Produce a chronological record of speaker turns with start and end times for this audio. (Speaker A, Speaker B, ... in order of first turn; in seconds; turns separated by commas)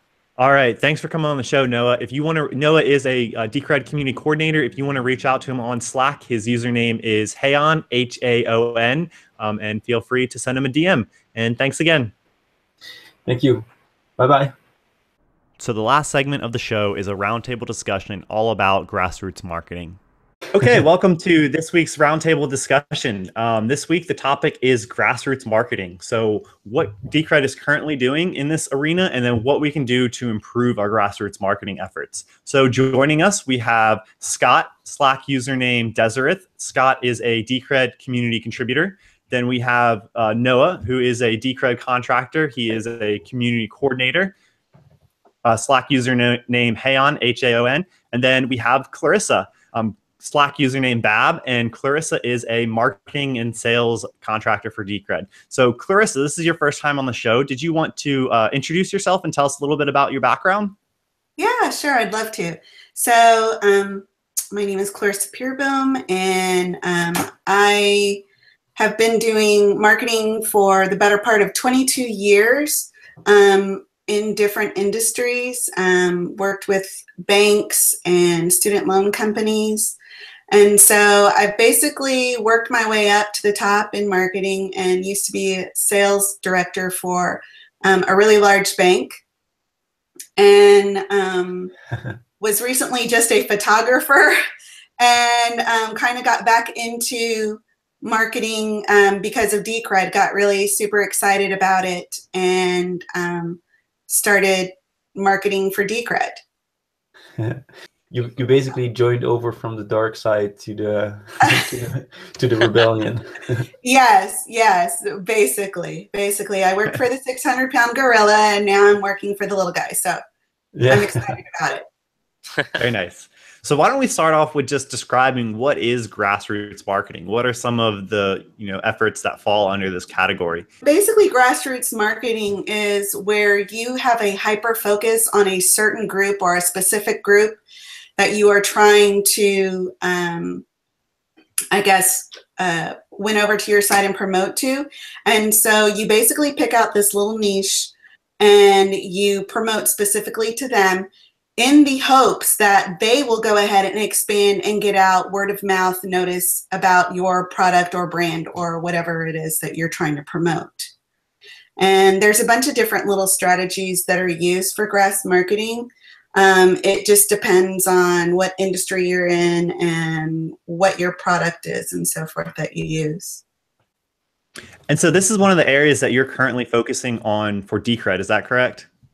Speaker A: 0.4-12.1, Speaker B: 13.2-13.7, Speaker B: 14.2-14.5, Speaker A: 15.6-20.0, Speaker A: 20.5-44.3, Speaker A: 45.4-60.8, Speaker C: 61.4-68.2, Speaker C: 68.8-80.0, Speaker C: 80.5-89.2, Speaker C: 90.4-91.7, Speaker C: 92.4-94.4, Speaker C: 95.0-106.4, Speaker B: 107.4-113.7, Speaker C: 111.4-111.7, Speaker C: 113.8-120.2, Speaker B: 120.8-121.3, Speaker C: 120.9-121.8, Speaker A: 122.8-130.7, Speaker C: 130.8-137.6, Speaker C: 138.2-140.6, Speaker C: 141.7-160.9, Speaker C: 161.8-173.4, Speaker A: 174.9-178.9